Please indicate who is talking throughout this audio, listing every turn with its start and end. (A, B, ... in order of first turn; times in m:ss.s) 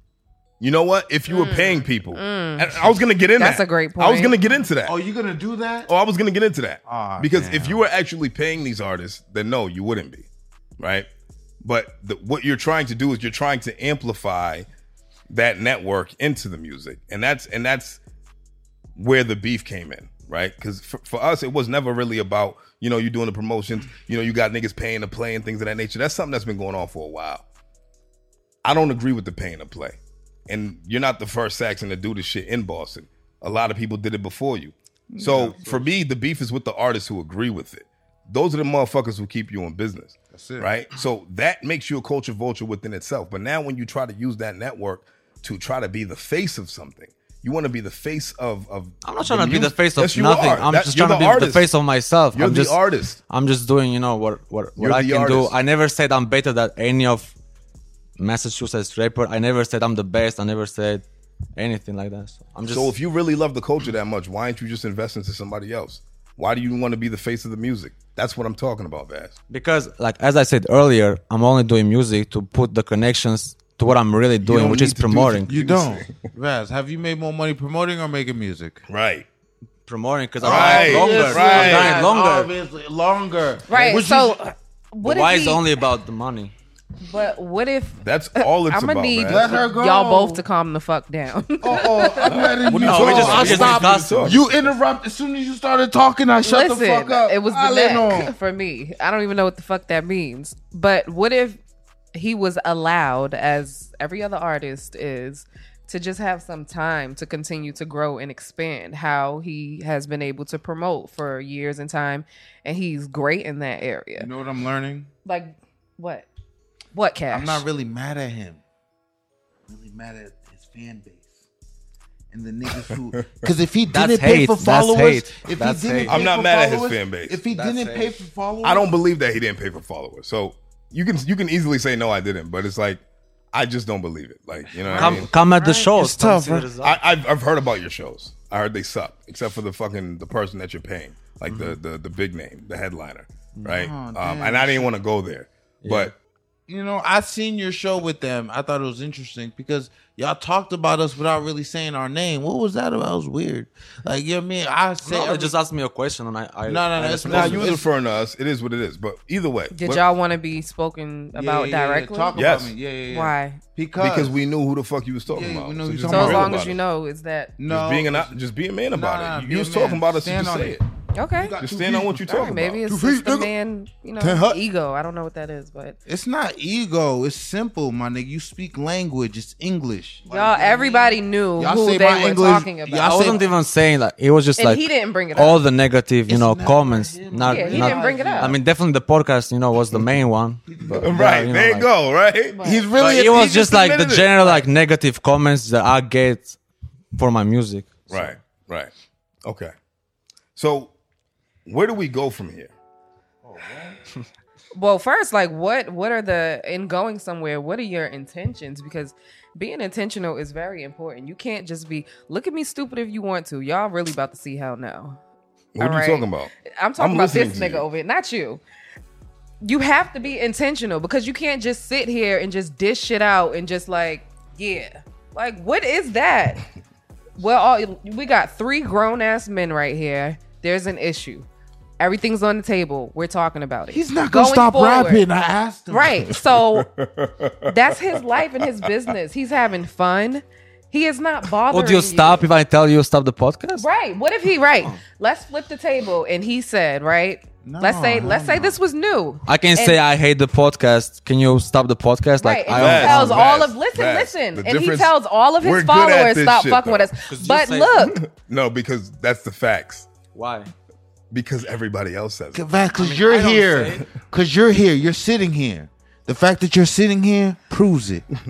0:00.6-0:05.0 A
0:01.3-0:02.7 B
0:03.4-0:04.4 B
0:04.8-0:05.9 C
0:05.9-0:10.3 A
0:06.9-0:07.9 C
0:10.8-0:11.1 A
0:11.6-0:14.7 A
0:15.3-0:18.0 A
0:19.0-0:27.4 A
0:28.6-0:30.0 A
0:30.5-0:51.7 A
0:35.1-0:35.9 C
0:40.3-0:40.7 C
0:49.0-0:57.4 D
0:52.3-0:53.2 A
0:54.8-0:55.5 A
0:58.2-1:01.0 D
1:01.6-1:02.9 D
1:02.7-1:09.3 A
1:09.5-1:15.6 D
1:14.4-1:18.8 C
1:15.5-1:16.1 A
1:18.9-1:19.3 A
1:19.9-1:22.5 D
1:20.4-1:22.0 A
1:20.4-1:24.5 C
1:23.7-1:25.7 B
1:25.0-1:26.5 D
1:27.0-1:32.5 B
1:28.0-1:29.6 A
1:29.2-1:30.4 C
1:31.6-1:38.4 C
1:32.3-1:34.4 A
1:32.7-1:34.7 D
1:36.4-1:41.6 B
1:42.2-1:54.3 B
1:54.2-1:55.1 C
1:55.2-1:56.3 B
1:56.9-1:57.6 B
1:57.3-1:58.6 C
1:59.7-2:01.3 C
2:02.3-2:08.9 C
2:03.9-2:06.2 D
2:06.1-2:07.4 A
2:07.5-2:08.2 D
2:08.6-2:13.0 A
2:13.5-2:15.3 A
2:14.7-2:16.7 C
2:14.9-2:17.0 D
2:16.8-2:26.1 A
2:21.5-2:21.8 D
2:23.6-2:24.9 C
2:25.8-2:26.1 D
2:26.7-2:35.6 C
2:35.0-2:37.8 D
2:36.7-2:37.9 C
2:37.3-2:40.0 A
2:39.7-2:42.3 B
2:41.3-2:44.4 C
2:42.3-2:42.8 A
2:43.1-2:43.6 B
2:44.0-2:46.8 A
2:45.3-2:46.7 C
2:46.1-2:47.6 B
2:47.6-2:48.4 C
2:47.7-2:50.8 A
2:48.9-2:50.8 C
2:51.1-2:51.6 B
2:51.3-2:53.5 C
2:51.6-2:52.8 A
2:52.2-2:56.0 B
2:54.2-2:54.6 C
2:56.1-3:03.5 C
3:00.3-3:03.4 B
3:03.0-3:11.9 D
3:04.6-3:05.6 B
3:06.3-3:08.6 C
3:07.5-3:08.6 B
3:10.7-3:11.1 C
3:10.9-3:12.6 A
3:12.5-3:12.9 B
3:12.6-3:13.5 C
3:13.0-3:16.6 D
3:13.1-3:14.6 A
3:17.2-3:18.4 D
3:18.1-3:18.9 A
3:19.4-3:19.7 A
3:20.6-3:20.9 A
3:21.7-3:22.7 A
3:23.4-3:24.0 C
3:24.7-3:35.2 B
3:35.8-3:37.8 A
3:35.8-3:38.6 B
3:39.6-3:46.6 B
3:47.4-3:51.5 B
3:52.0-3:55.2 B
3:53.9-3:56.3 C
3:55.9-3:56.9 B
3:56.4-3:58.8 A
3:57.7-4:02.5 B
4:01.7-4:03.9 D
4:03.8-4:10.0 B
4:07.6-4:08.8 C
4:09.5-4:13.5 D
4:12.4-4:18.2 B
4:12.7-4:17.1 A
4:17.3-4:18.1 D
4:18.0-4:20.1 A
4:20.3-4:20.7 D
4:21.3-4:22.6 A
4:22.5-4:28.2 C
4:23.0-4:24.1 D